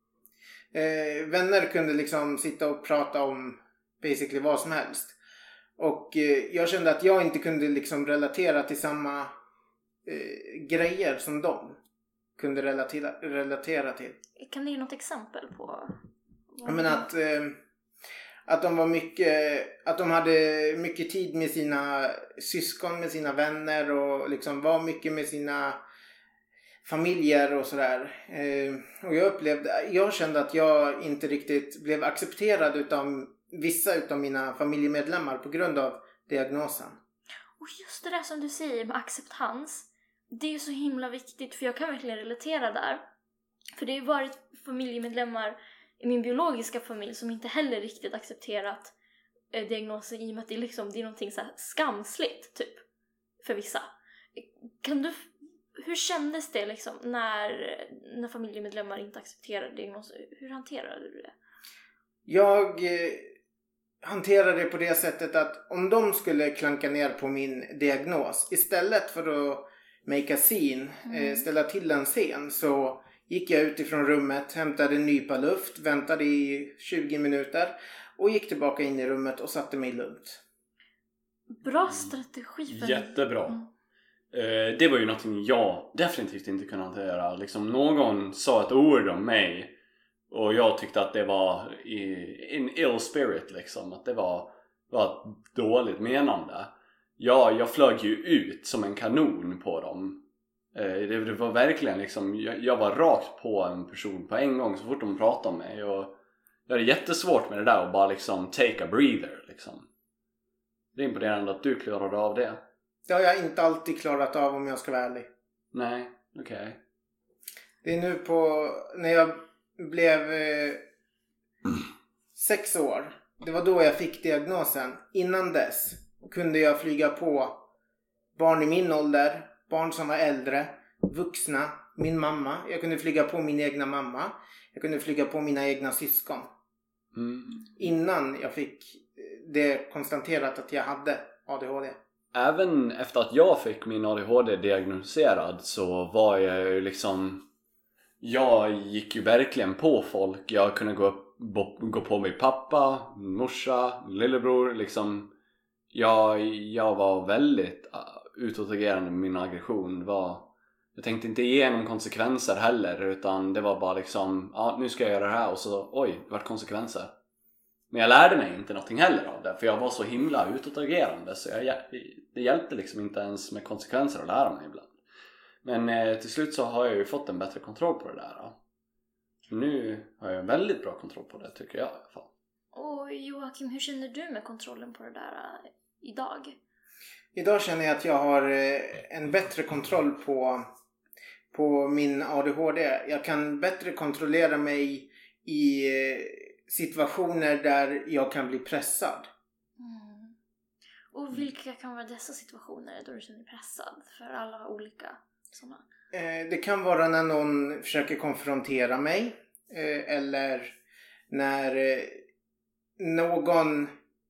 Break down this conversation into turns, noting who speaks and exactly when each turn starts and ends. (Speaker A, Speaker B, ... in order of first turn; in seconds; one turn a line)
Speaker A: 0.7-5.2
Speaker A: 5.8-9.3
Speaker A: 10.1-11.8
Speaker A: 12.4-14.2
Speaker B: 14.4-16.0
Speaker B: 16.5-17.1
Speaker A: 16.6-17.6
Speaker A: 18.5-25.8
Speaker A: 26.8-37.0
Speaker B: 37.6-43.0
Speaker B: 43.8-48.9
Speaker B: 49.5-52.8
Speaker B: 53.4-61.3
Speaker A: 62.3-63.3
Speaker A: 64.0-80.4
Speaker B: 71.0-71.5
Speaker B: 81.5-83.7
Speaker C: 82.7-83.6
Speaker C: 84.3-89.8
Speaker C: 90.3-100.2
Speaker C: 100.7-109.9
Speaker C: 110.9-112.6
Speaker A: 113.1-115.3
Speaker C: 115.7-116.8
Speaker A: 117.8-120.8
Speaker A: 122.3-127.7
Speaker A: 128.4-136.5
Speaker C: 137.1-137.6
Speaker A: 137.8-142.0
Speaker C: 142.3-147.4
Speaker C: 148.2-155.3
Speaker C: 155.9-167.1
Speaker C: 167.9-174.9
Speaker C: 175.6-178.6
Speaker C: 179.5-182.3
Speaker B: 182.7-186.6
Speaker A: 187.3-190.6
Speaker A: 191.5-199.3
Speaker B: 199.8-200.4
Speaker B: 201.1-205.8
Speaker A: 206.1-210.8
Speaker A: 211.3-212.2
Speaker A: 213.0-213.9